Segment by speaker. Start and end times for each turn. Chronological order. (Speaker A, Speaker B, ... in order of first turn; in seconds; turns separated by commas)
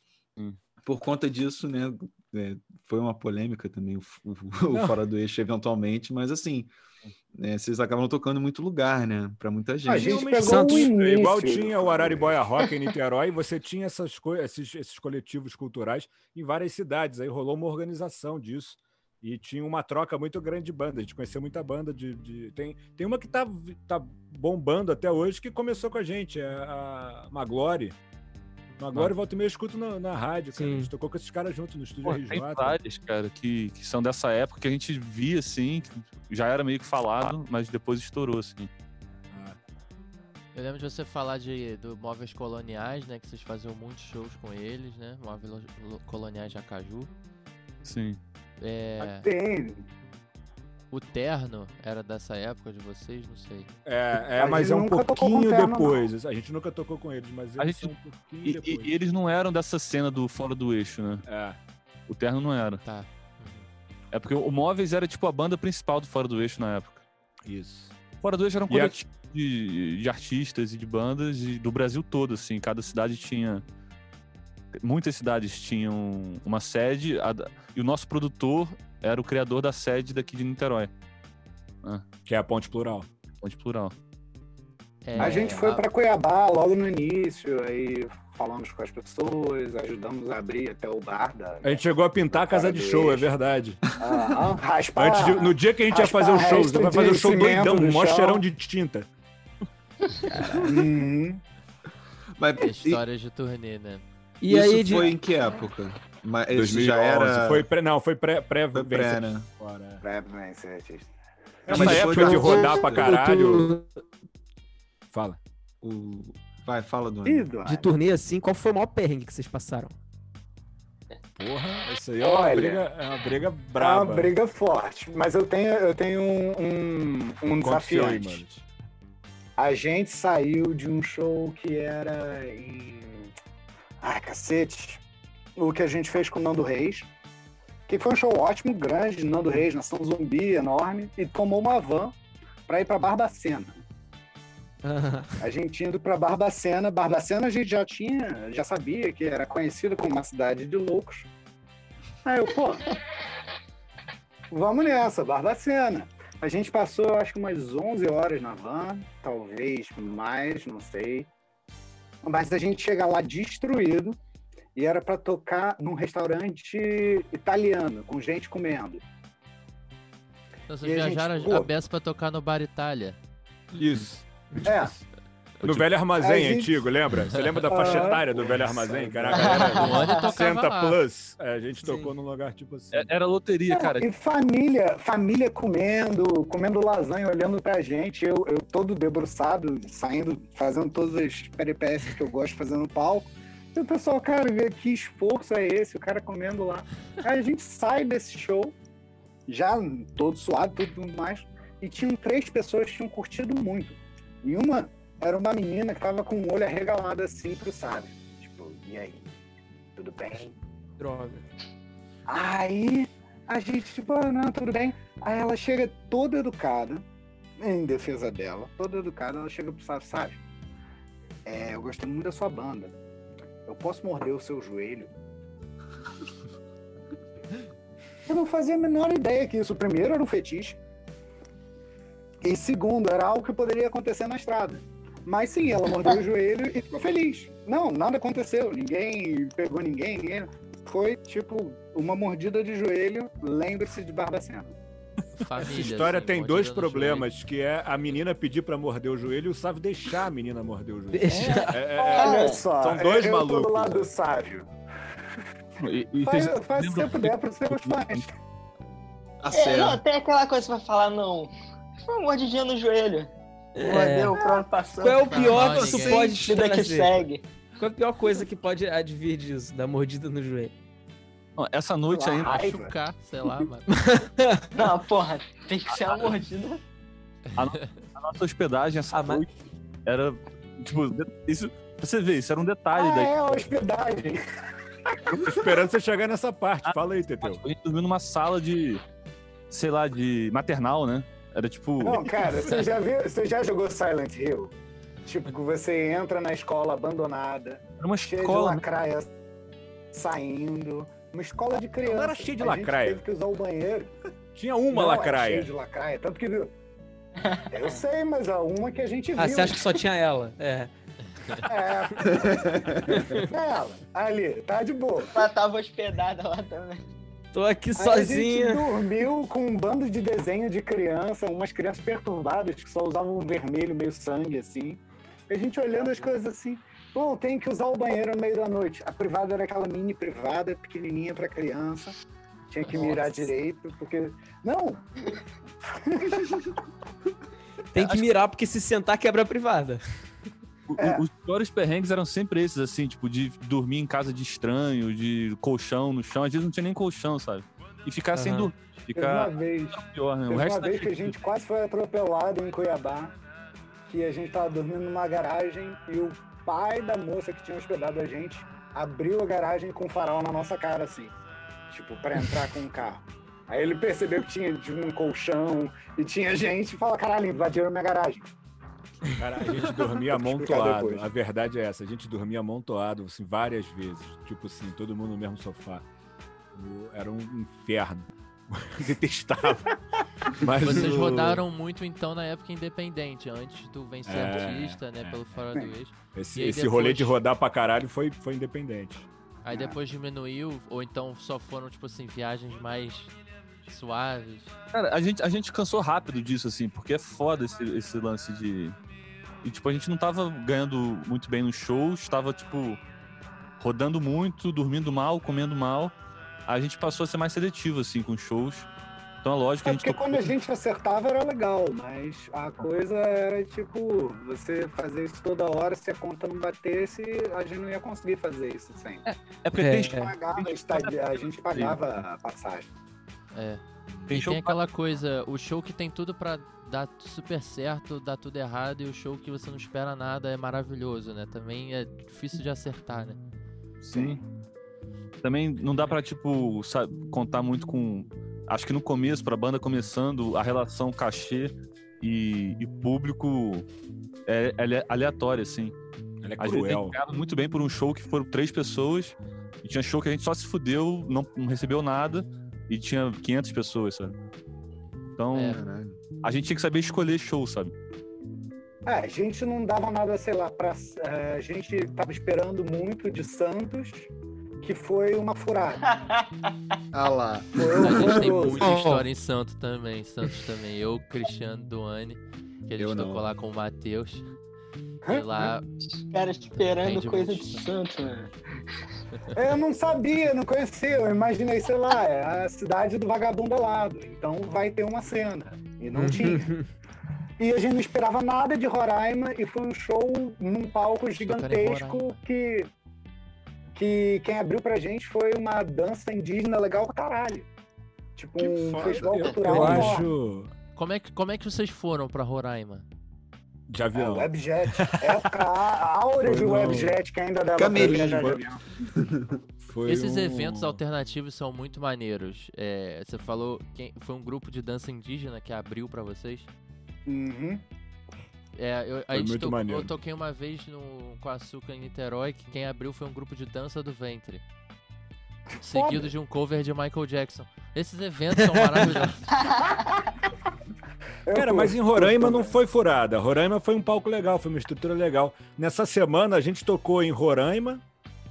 Speaker A: 0.8-6.7, Speaker A: 7.3-10.2, Speaker B: 9.8-12.7, Speaker C: 9.9-28.0, Speaker D: 10.4-10.9, Speaker C: 28.8-32.8, Speaker D: 30.6-30.9, Speaker E: 32.0-38.7, Speaker C: 39.3-39.6, Speaker F: 40.5-47.1, Speaker E: 47.8-48.2, Speaker F: 48.6-49.3, Speaker B: 49.0-49.9, Speaker F: 50.9-53.7, Speaker C: 53.8-58.9, Speaker B: 54.4-56.1, Speaker E: 57.6-57.9, Speaker E: 58.4-61.2, Speaker C: 61.2-61.6, Speaker E: 62.1-62.8, Speaker F: 62.8-63.6, Speaker E: 64.1-67.0, Speaker C: 67.5-67.9, Speaker E: 68.2-73.6, Speaker C: 68.7-69.0, Speaker E: 74.8-80.9, Speaker C: 82.2-83.1, Speaker E: 83.4-83.9, Speaker F: 85.0-85.8, Speaker B: 85.2-93.3, Speaker C: 91.6-93.8, Speaker A: 93.9-94.3, Speaker B: 94.0-98.4, Speaker C: 94.9-99.1, Speaker B: 100.6-101.4, Speaker A: 102.4-103.0, Speaker F: 102.6-104.0, Speaker D: 104.4-105.1, Speaker A: 104.5-107.6, Speaker C: 106.5-110.0, Speaker A: 108.7-109.5, Speaker B: 110.0-111.1, Speaker B: 111.7-112.7, Speaker C: 111.7-113.7, Speaker A: 111.7-113.2, Speaker D: 111.8-114.0, Speaker C: 115.1-115.4, Speaker A: 115.8-117.5, Speaker B: 117.2-117.9, Speaker D: 117.6-120.0, Speaker C: 121.3-124.3, Speaker B: 122.2-122.8, Speaker B: 123.8-128.4, Speaker C: 127.5-128.6, Speaker B: 129.6-133.3, Speaker B: 134.0-135.0, Speaker B: 135.6-137.1, Speaker B: 137.9-142.1, Speaker B: 142.7-143.8, Speaker D: 144.8-145.3, Speaker B: 145.4-151.3, Speaker B: 152.2-153.0, Speaker B: 154.5-161.3, Speaker B: 162.2-164.2, Speaker B: 164.8-169.0, Speaker F: 170.7-173.2, Speaker B: 170.8-171.7, Speaker C: 173.7-174.9, Speaker B: 174.6-174.9, Speaker C: 175.6-183.1, Speaker B: 176.2-176.9, Speaker B: 177.7-179.8, Speaker G: 179.3-180.2, Speaker F: 179.7-181.0, Speaker E: 182.9-184.1, Speaker B: 183.7-198.7, Speaker B: 199.5-209.3, Speaker B: 209.9-210.5, Speaker D: 211.0-211.4, Speaker B: 212.3-217.0, Speaker B: 217.6-220.4, Speaker B: 221.4-222.9, Speaker B: 223.7-225.1, Speaker B: 228.3-230.8, Speaker B: 232.4-244.7, Speaker F: 245.4-247.3, Speaker C: 245.5-254.1, Speaker D: 251.1-251.8, Speaker G: 251.4-252.7, Speaker B: 251.4-254.7, Speaker E: 255.8-258.2, Speaker B: 256.2-258.3, Speaker A: 259.4-260.0, Speaker G: 259.5-261.5, Speaker G: 262.1-267.5, Speaker D: 263.8-267.2, Speaker F: 265.2-266.2, Speaker A: 265.7-266.5, Speaker D: 267.8-270.7, Speaker E: 271.6-272.7, Speaker B: 272.1-272.9, Speaker F: 272.4-273.9, Speaker D: 273.9-274.7, Speaker G: 274.7-276.8, Speaker E: 275.9-276.3, Speaker E: 277.6-279.5, Speaker D: 279.1-279.4, Speaker E: 280.0-283.4, Speaker B: 282.9-284.4, Speaker C: 285.3-287.6, Speaker E: 286.9-289.0, Speaker E: 289.7-292.3, Speaker B: 292.0-294.7, Speaker B: 295.2-299.3, Speaker E: 298.0-298.8, Speaker B: 300.1-304.1, Speaker C: 302.0-303.2, Speaker C: 304.5-305.7, Speaker B: 304.9-306.7, Speaker G: 307.4-308.0, Speaker B: 307.7-309.8, Speaker D: 309.4-310.9, Speaker B: 311.6-312.9, Speaker A: 312.3-313.1, Speaker D: 313.1-313.5, Speaker B: 313.4-315.4, Speaker G: 315.3-317.0, Speaker D: 317.5-318.9, Speaker B: 317.9-332.1, Speaker B: 332.7-335.0, Speaker B: 335.9-336.5, Speaker D: 337.9-340.0, Speaker E: 338.0-338.3, Speaker E: 340.9-351.3, Speaker D: 348.3-348.7, Speaker B: 349.1-353.3, Speaker B: 354.1-361.3, Speaker B: 361.9-368.5, Speaker C: 369.3-376.1, Speaker B: 370.1-371.2, Speaker C: 376.7-380.0, Speaker C: 380.5-381.6, Speaker F: 380.8-387.4, Speaker C: 384.2-385.4, Speaker C: 386.3-389.3, Speaker F: 389.6-393.3, Speaker B: 389.7-390.0, Speaker F: 393.8-394.7, Speaker E: 394.9-398.9, Speaker E: 399.6-403.0, Speaker E: 403.8-406.1, Speaker E: 406.7-408.9, Speaker E: 409.4-410.5, Speaker B: 409.8-419.2, Speaker E: 419.2-422.0, Speaker D: 419.8-420.3, Speaker B: 420.1-422.9, Speaker F: 423.5-433.4, Speaker A: 424.1-424.4, Speaker E: 424.3-424.8, Speaker E: 434.0-434.4, Speaker B: 434.1-434.4, Speaker E: 435.4-443.9, Speaker E: 444.5-445.9, Speaker C: 446.4-447.1, Speaker E: 446.6-454.3, Speaker E: 455.4-455.8, Speaker F: 455.5-455.8, Speaker A: 455.7-456.2, Speaker E: 456.4-457.9, Speaker B: 459.1-464.3, Speaker B: 464.8-466.1, Speaker G: 466.0-466.5, Speaker A: 467.1-468.7, Speaker B: 467.7-468.8, Speaker F: 468.0-474.5, Speaker D: 468.8-469.2, Speaker A: 473.0-473.4, Speaker B: 475.3-475.6, Speaker F: 475.3-475.8, Speaker G: 476.1-478.5, Speaker F: 476.7-477.9, Speaker B: 479.5-486.7, Speaker D: 486.1-486.9, Speaker B: 487.6-492.9, Speaker F: 491.4-492.4, Speaker B: 493.9-497.7, Speaker B: 498.4-500.3, Speaker A: 498.6-499.5, Speaker C: 499.0-500.7, Speaker F: 500.9-503.1, Speaker C: 503.9-505.5, Speaker B: 504.1-508.8, Speaker C: 506.4-507.2, Speaker A: 507.7-509.6, Speaker C: 507.9-508.6, Speaker C: 509.9-511.0, Speaker F: 510.0-516.7, Speaker B: 517.2-517.8, Speaker F: 518.7-524.6, Speaker C: 519.3-520.1, Speaker F: 525.8-529.5, Speaker B: 525.9-526.3, Speaker B: 531.5-532.8, Speaker C: 531.5-538.0